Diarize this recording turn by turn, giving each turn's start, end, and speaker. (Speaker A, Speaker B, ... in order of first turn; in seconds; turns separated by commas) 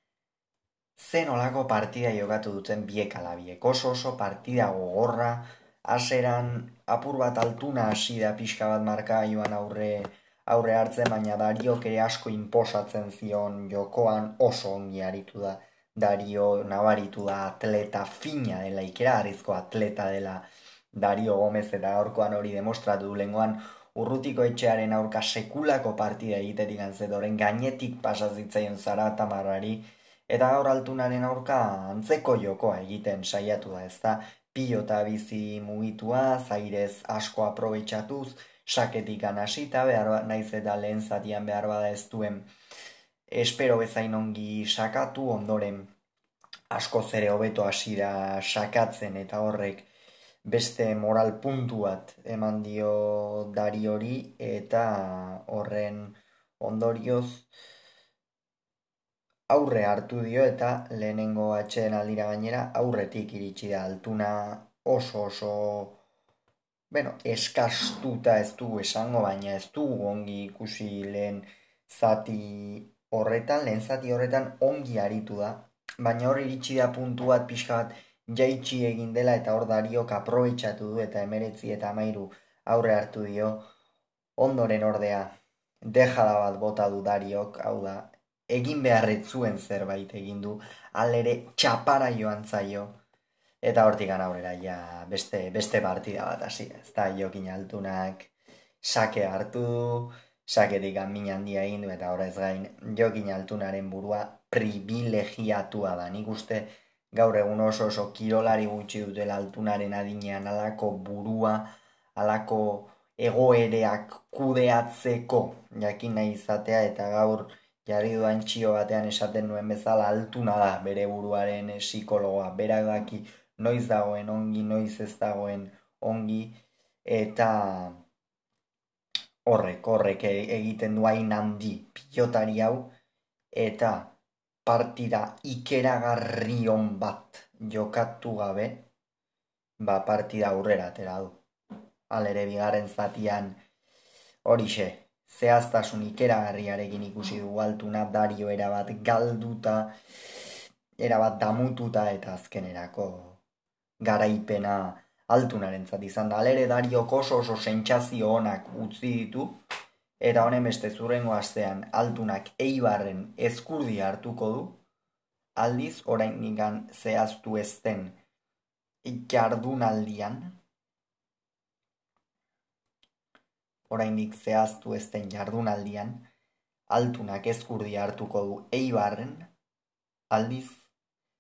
Speaker A: 1.0-42.5, Speaker A: 43.3-45.9, Speaker A: 46.7-49.9, Speaker A: 50.5-57.5, Speaker A: 59.5-66.0, Speaker A: 66.9-83.7, Speaker A: 84.4-85.3, Speaker A: 85.8-93.0, Speaker A: 93.6-128.0, Speaker A: 129.5-132.9, Speaker A: 133.5-138.9, Speaker A: 139.8-141.4, Speaker A: 142.1-143.6, Speaker A: 144.4-150.0, Speaker A: 151.0-153.4, Speaker A: 154.0-159.6, Speaker A: 160.2-164.8, Speaker A: 165.6-168.2, Speaker A: 169.0-170.6, Speaker A: 173.9-176.3, Speaker A: 176.9-179.5, Speaker A: 180.3-180.9